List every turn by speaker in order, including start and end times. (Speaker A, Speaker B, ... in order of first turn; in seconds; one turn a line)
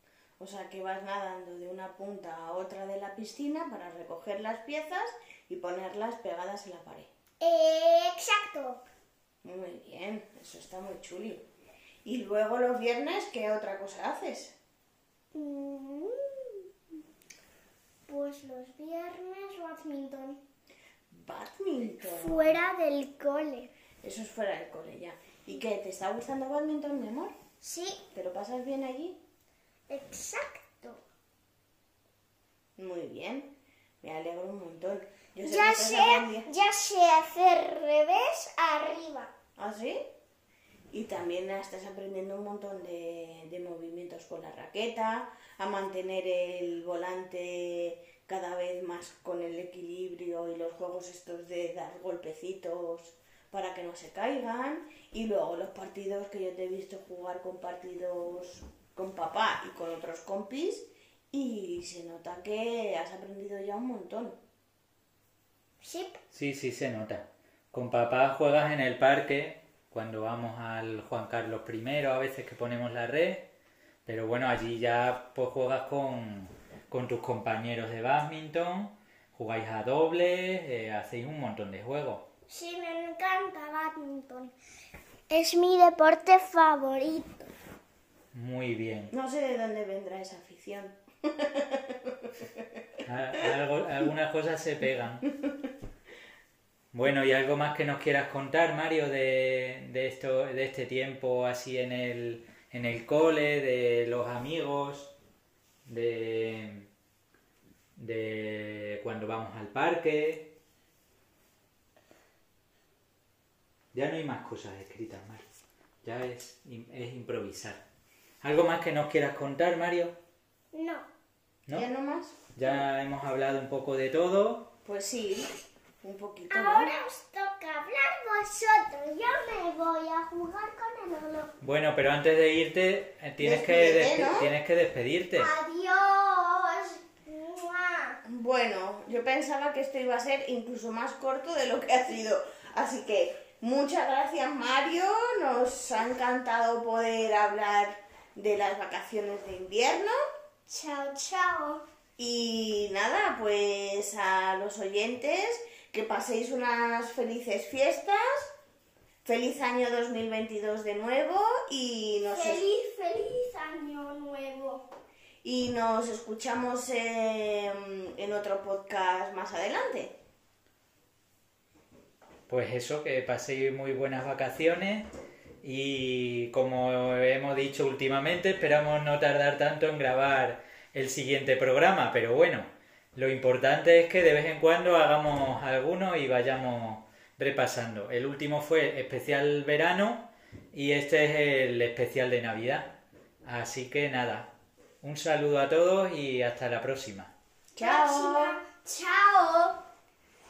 Speaker A: 0.4-7.1
Speaker B: 7.4-8.8
Speaker A: 9.4-11.4
Speaker A: 12.1-14.5
Speaker B: 15.3-16.7
Speaker B: 18.1-20.4
Speaker A: 21.1-22.6
Speaker B: 22.2-23.7
Speaker A: 24.0-27.4
Speaker B: 27.6-28.0
Speaker A: 28.1-29.2
Speaker B: 29.9-31.0
Speaker A: 32.8-33.5
Speaker A: 34.0-36.5
Speaker B: 35.4-39.3
Speaker A: 39.6-40.0
Speaker A: 40.9-64.4
Speaker B: 65.8-66.2
Speaker C: 66.3-73.5
Speaker C: 74.1-82.2
Speaker B: 82.5-84.5
Speaker B: 85.3-87.5
Speaker C: 88.3-89.1
Speaker A: 89.1-92.6
Speaker C: 93.0-95.3
Speaker C: 96.9-105.1
Speaker C: 105.9-106.9
Speaker C: 108.0-110.6
Speaker C: 113.9-115.4
Speaker C: 116.0-117.8
Speaker C: 118.4-120.2
Speaker B: 120.7-121.1
Speaker A: 121.7-122.4
Speaker C: 122.5-124.7
Speaker A: 124.8-126.9
Speaker B: 126.5-131.5
Speaker C: 131.6-135.5
Speaker A: 133.4-134.5
Speaker B: 135.4-138.2
Speaker A: 138.2-150.2
Speaker B: 150.7-151.8
Speaker A: 152.2-158.5
Speaker A: 159.2-162.7
Speaker B: 162.3-164.9
Speaker A: 165.4-170.2
Speaker C: 172.5-175.1
Speaker C: 175.6-194.5
Speaker C: 195.0-197.3
Speaker A: 197.8-198.6
Speaker B: 197.8-199.8